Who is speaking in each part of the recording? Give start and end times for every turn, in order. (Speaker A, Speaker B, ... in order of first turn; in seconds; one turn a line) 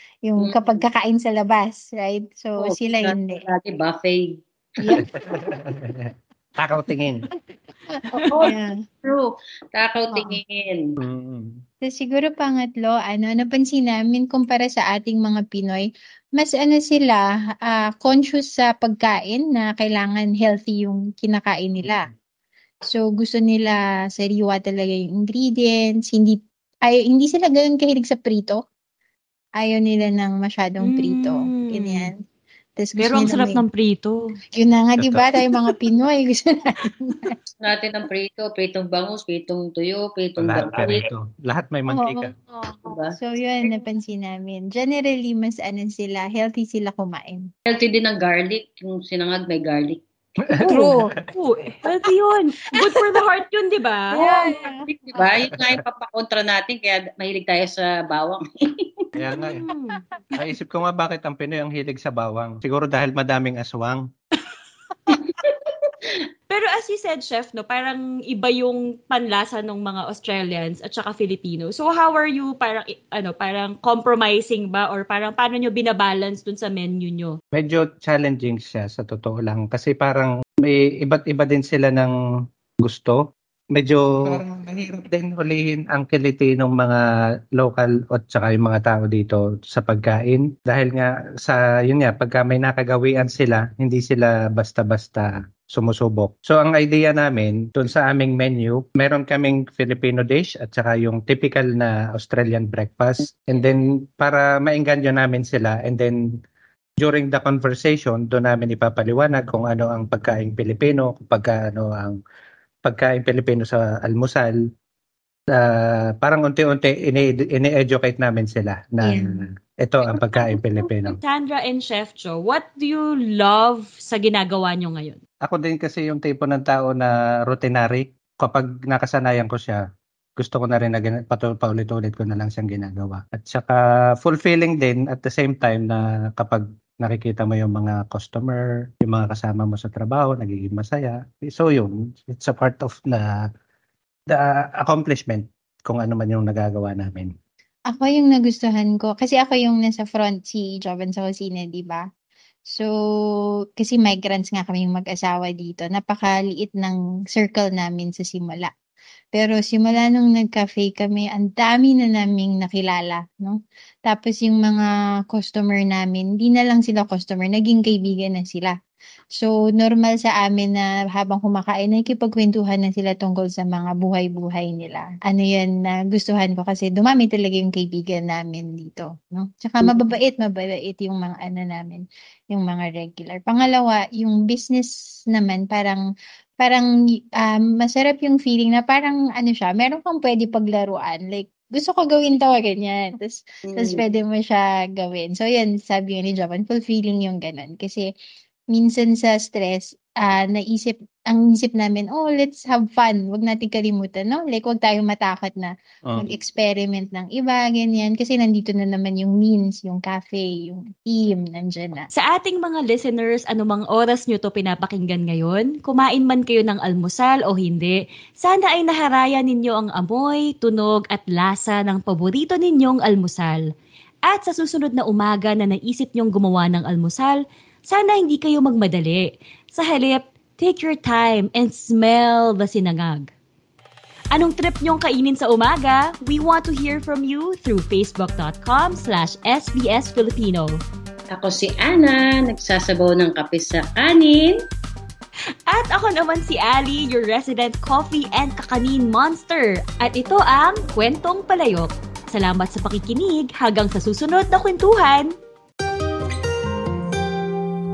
Speaker A: 0.2-3.4
Speaker B: 0.4-0.8
Speaker B: 2.6-4.3
Speaker C: 4.9-7.3
Speaker A: 7.9-8.8
Speaker B: 8.3-10.8
Speaker A: 10.1-10.4
Speaker C: 11.0-11.6
Speaker A: 11.8-15.9
Speaker A: 16.4-22.1
Speaker A: 22.9-28.6
Speaker A: 29.6-32.2
Speaker D: 30.8-32.1
Speaker A: 32.8-33.6
Speaker D: 33.0-34.3
Speaker A: 34.5-37.3
Speaker C: 35.0-35.5
Speaker B: 37.6-41.1
Speaker C: 40.4-42.4
Speaker A: 41.9-42.3
Speaker B: 42.8-43.1
Speaker A: 43.1-47.5
Speaker B: 47.6-50.0
Speaker C: 50.5-51.1
Speaker A: 50.6-51.1
Speaker D: 51.3-54.2
Speaker A: 54.1-54.9
Speaker B: 54.2-58.9
Speaker C: 55.5-55.8
Speaker C: 59.1-59.6
Speaker D: 59.5-60.0
Speaker C: 60.4-64.0
Speaker D: 66.5-77.4
Speaker C: 77.5-82.1
Speaker C: 82.8-87.0
Speaker C: 87.5-106.2
Speaker C: 107.0-112.2
Speaker C: 112.8-114.6
Speaker C: 115.5-121.2
Speaker A: 119.0-119.4
Speaker D: 121.0-125.2
Speaker C: 125.4-129.8
Speaker C: 130.4-143.3
Speaker C: 144.3-147.3
Speaker A: 147.9-152.0
Speaker A: 152.7-158.7
Speaker A: 159.3-168.8
Speaker A: 169.3-186.0
Speaker B: 179.8-180.1
Speaker A: 186.6-186.9
Speaker A: 187.4-198.1
Speaker B: 193.6-194.0
Speaker A: 198.7-212.1
Speaker C: 206.0-206.3
Speaker D: 212.1-223.6
Speaker D: 224.2-233.3
Speaker D: 234.3-240.8
Speaker B: 241.3-244.5
Speaker D: 245.7-255.3